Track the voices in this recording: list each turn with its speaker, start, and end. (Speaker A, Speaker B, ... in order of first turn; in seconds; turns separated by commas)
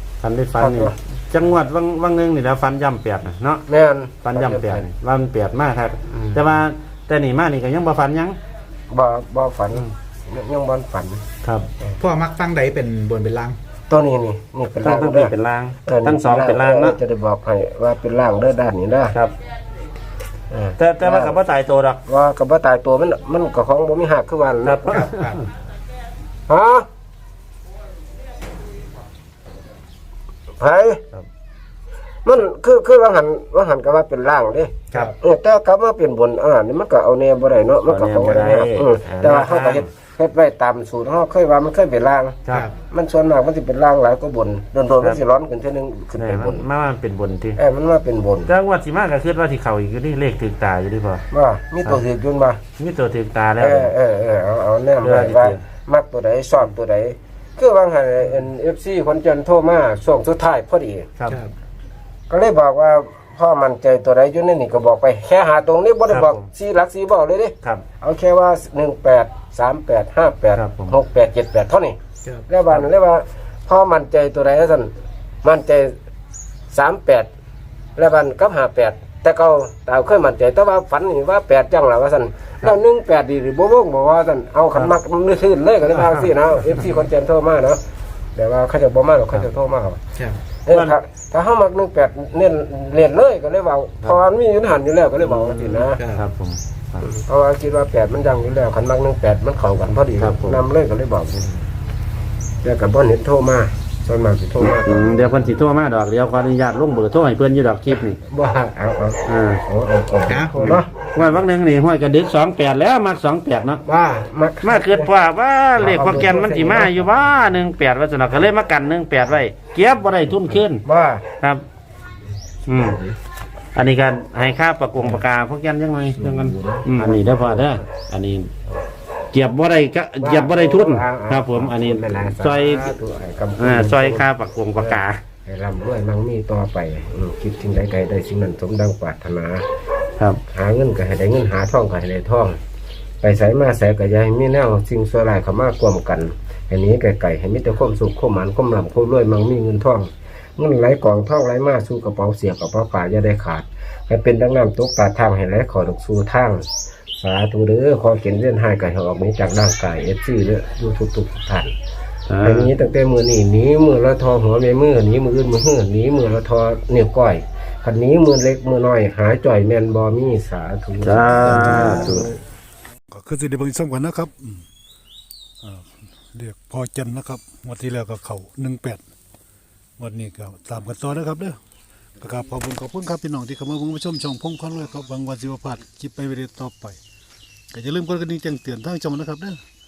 Speaker A: 0.2-3.6, Speaker B: 0.6-0.9, Speaker B: 3.7-4.8, Speaker A: 4.2-8.3, Speaker B: 6.1-6.5, Speaker B: 8.9-11.2, Speaker A: 11.4-11.7, Speaker C: 12.0-13.6, Speaker B: 13.9-15.3, Speaker A: 14.8-17.0, Speaker B: 15.8-19.2, Speaker B: 20.5-21.4, Speaker A: 20.8-22.0, Speaker B: 22.1-25.1, Speaker A: 24.6-25.4, Speaker C: 25.0-25.4, Speaker B: 26.5-26.9, Speaker B: 30.6-31.0, Speaker B: 32.2-46.6, Speaker A: 37.9-39.9, Speaker A: 46.2-47.6, Speaker B: 47.6-48.5, Speaker A: 48.5-51.2, Speaker B: 51.3-52.6, Speaker A: 52.8-53.9, Speaker B: 53.6-61.1, Speaker A: 55.0-55.6, Speaker C: 61.3-61.5, Speaker B: 62.3-72.0, Speaker A: 66.1-66.5, Speaker A: 70.6-71.0, Speaker B: 72.5-74.9, Speaker B: 75.4-75.9, Speaker B: 76.7-77.3, Speaker B: 78.0-87.8, Speaker C: 86.0-86.3, Speaker B: 88.3-90.0, Speaker B: 90.7-96.0, Speaker A: 90.7-91.0, Speaker A: 95.2-97.1, Speaker C: 95.8-96.2, Speaker B: 97.0-101.7, Speaker A: 100.2-100.6, Speaker B: 102.6-105.6, Speaker A: 104.6-108.2, Speaker B: 108.2-111.0, Speaker A: 109.3-109.6, Speaker C: 110.3-110.5, Speaker A: 110.5-113.8, Speaker B: 113.8-115.1, Speaker A: 114.6-120.8, Speaker B: 115.8-117.3, Speaker B: 120.3-121.2, Speaker A: 122.7-123.0, Speaker B: 122.7-123.2, Speaker A: 123.8-128.5, Speaker B: 126.1-127.8, Speaker A: 129.3-132.9, Speaker B: 130.2-139.7, Speaker A: 133.6-135.2, Speaker B: 140.5-142.6, Speaker B: 143.2-156.7, Speaker B: 157.2-161.7, Speaker A: 162.3-162.7, Speaker B: 162.4-172.3, Speaker A: 171.0-172.3, Speaker D: 171.4-172.2, Speaker D: 173.1-174.7, Speaker D: 175.6-179.0, Speaker D: 180.0-181.6, Speaker D: 182.2-187.0, Speaker D: 187.7-189.6